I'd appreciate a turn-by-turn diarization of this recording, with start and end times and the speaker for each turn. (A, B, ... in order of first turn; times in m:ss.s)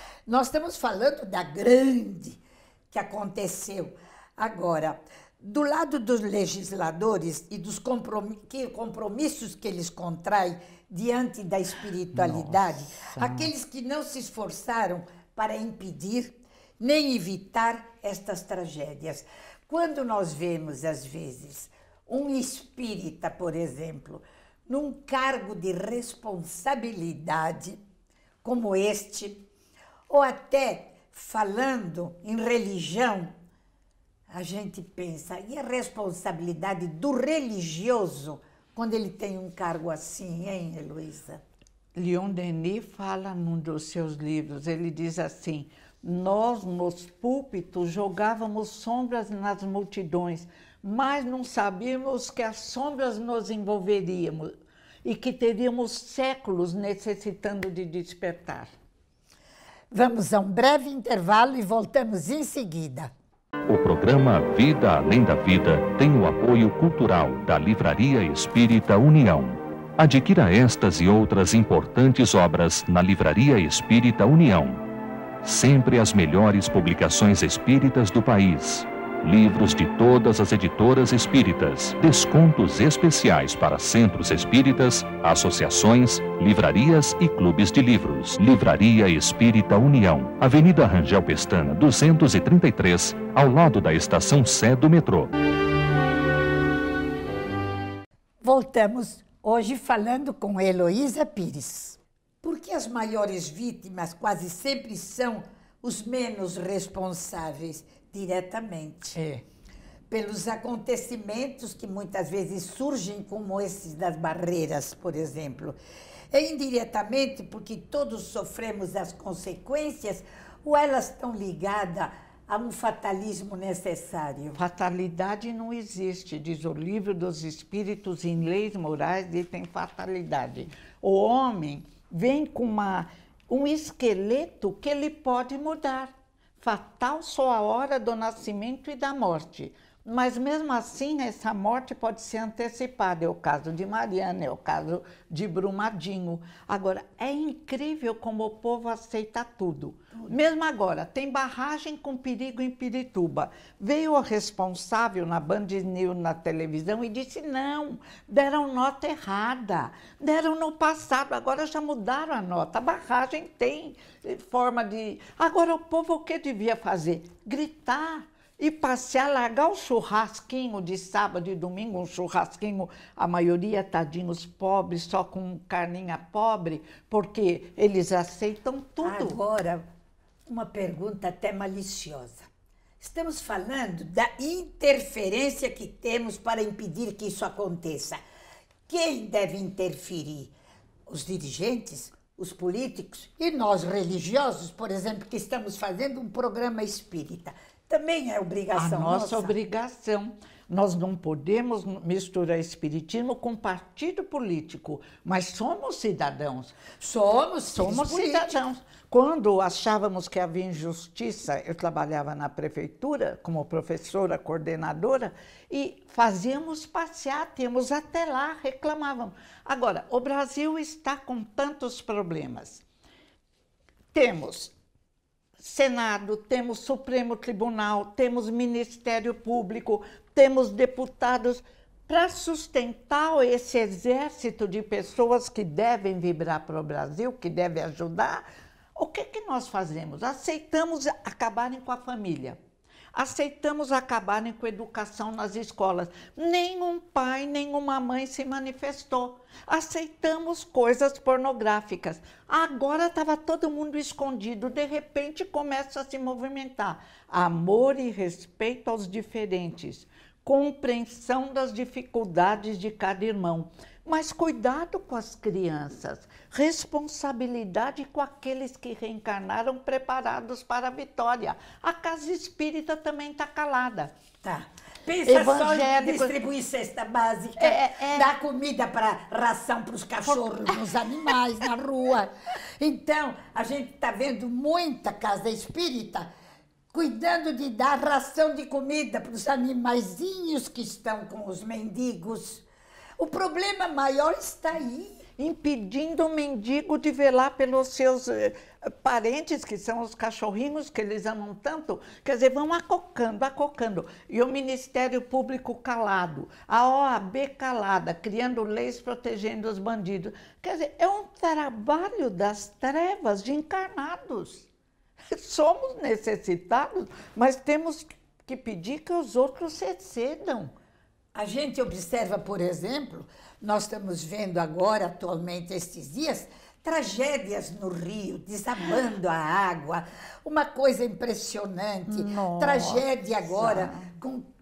0:00.3-0:27.8 A
0:12.1-0:13.5 B
0:28.4-0:29.5 A
0:30.1-0:33.3 A
0:34.3-0:41.4 A
0:41.9-0:54.5 B
0:55.0-0:58.7 B
0:59.9-1:03.1 A
1:03.7-1:14.8 C
1:15.4-1:35.3 C
1:38.4-1:49.2 A
1:49.1-1:49.4 B
1:50.1-1:55.8 A
1:56.3-2:04.6 A
2:04.5-2:59.4 B
2:59.0-2:59.8 A
3:00.5-3:02.5 A
3:03.0-3:08.2 A
3:08.9-3:10.5 A
3:11.1-3:19.5 A
3:18.8-3:26.8 B
3:27.0-3:28.6 A
3:27.7-3:42.8 B
3:44.1-3:44.7 B
3:45.6-3:58.4 B
3:58.9-4:02.6 B
4:03.1-4:34.1 B
4:34.4-4:46.3 A
4:35.2-4:36.4 B
4:37.6-4:38.3 B
4:46.9-4:52.6 A
4:53.2-4:55.2 A
4:55.4-5:14.7 B
5:15.3-5:20.7 B
5:21.3-5:34.5 A
5:32.1-5:34.1 B